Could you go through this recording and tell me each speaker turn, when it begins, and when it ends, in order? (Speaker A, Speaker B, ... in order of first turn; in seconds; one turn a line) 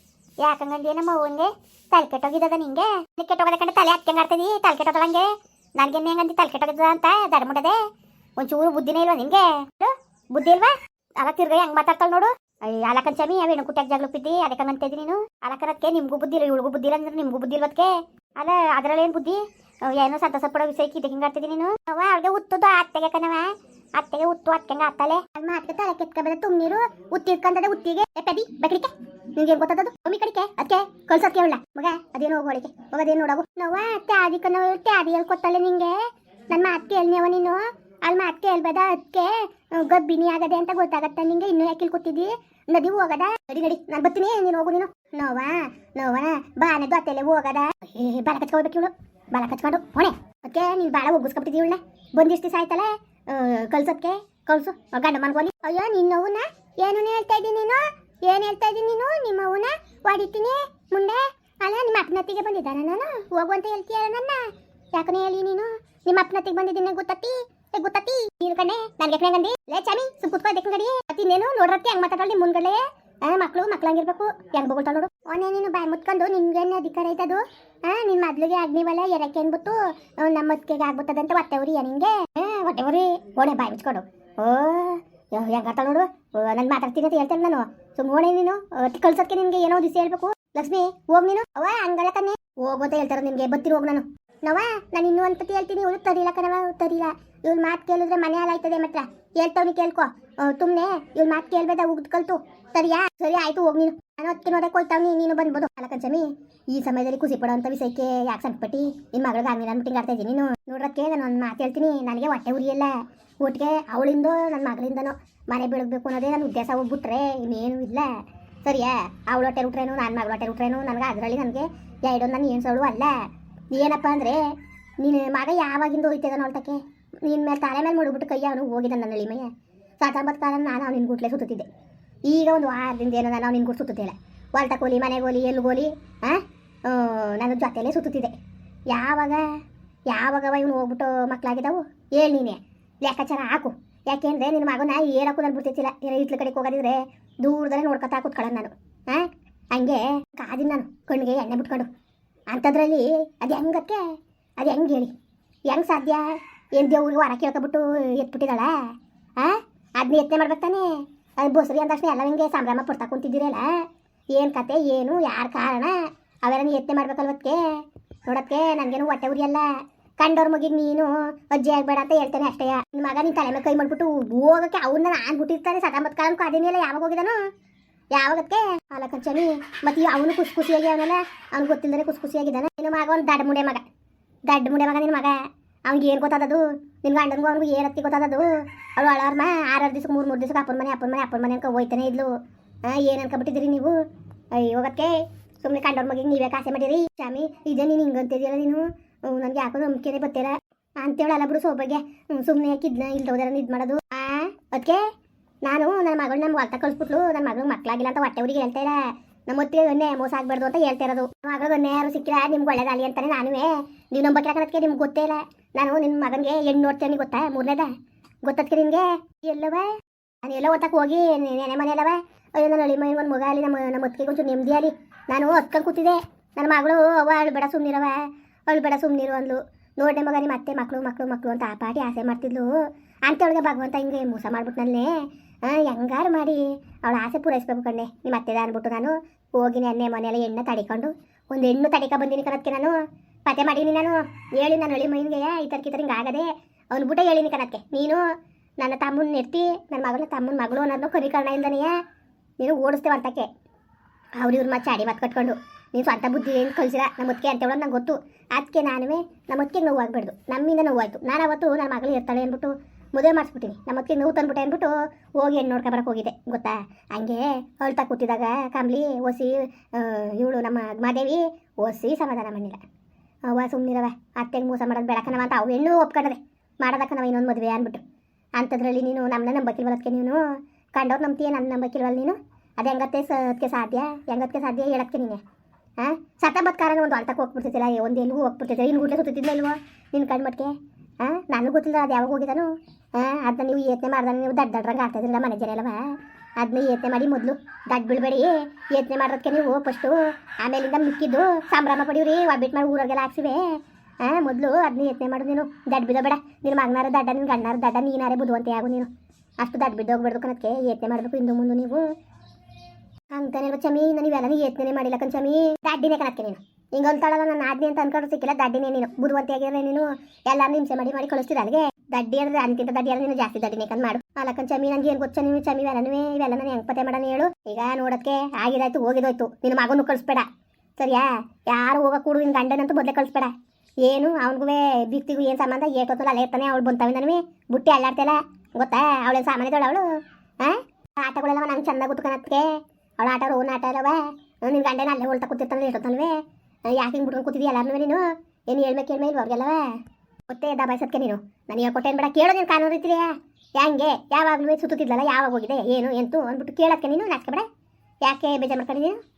Speaker A: 0.4-7.8
Speaker A: 8.4-118.1
Speaker A: 118.7-123.2
Speaker A: 123.7-124.4
Speaker A: 125.0-131.7
Speaker A: 132.3-138.3
Speaker A: 138.9-139.4
Speaker A: 140.1-151.9
Speaker A: 152.5-155.1
Speaker A: 155.7-158.8
Speaker A: 159.4-163.7
Speaker A: 164.3-165.9
Speaker A: 166.5-167.6
Speaker A: 168.3-169.7
Speaker A: 170.2-177.4
Speaker A: 178.1-183.8
Speaker A: 184.5-192.3
Speaker A: 192.9-194.0
Speaker A: 194.5-205.0
Speaker A: 205.7-217.9
Speaker A: 218.4-232.7
Speaker A: 233.3-248.2
Speaker A: 248.8-251.9
Speaker A: 252.6-253.5
Speaker A: 254.4-272.8
Speaker A: 273.5-278.0
Speaker A: 278.6-285.4
Speaker A: 286.0-309.1
Speaker A: 309.6-312.1
Speaker A: 313.3-330.5
Speaker A: 331.0-333.5
Speaker A: 334.1-340.1
Speaker A: 340.6-346.4
Speaker A: 346.9-349.8
Speaker A: 350.5-357.7
Speaker A: 358.2-359.2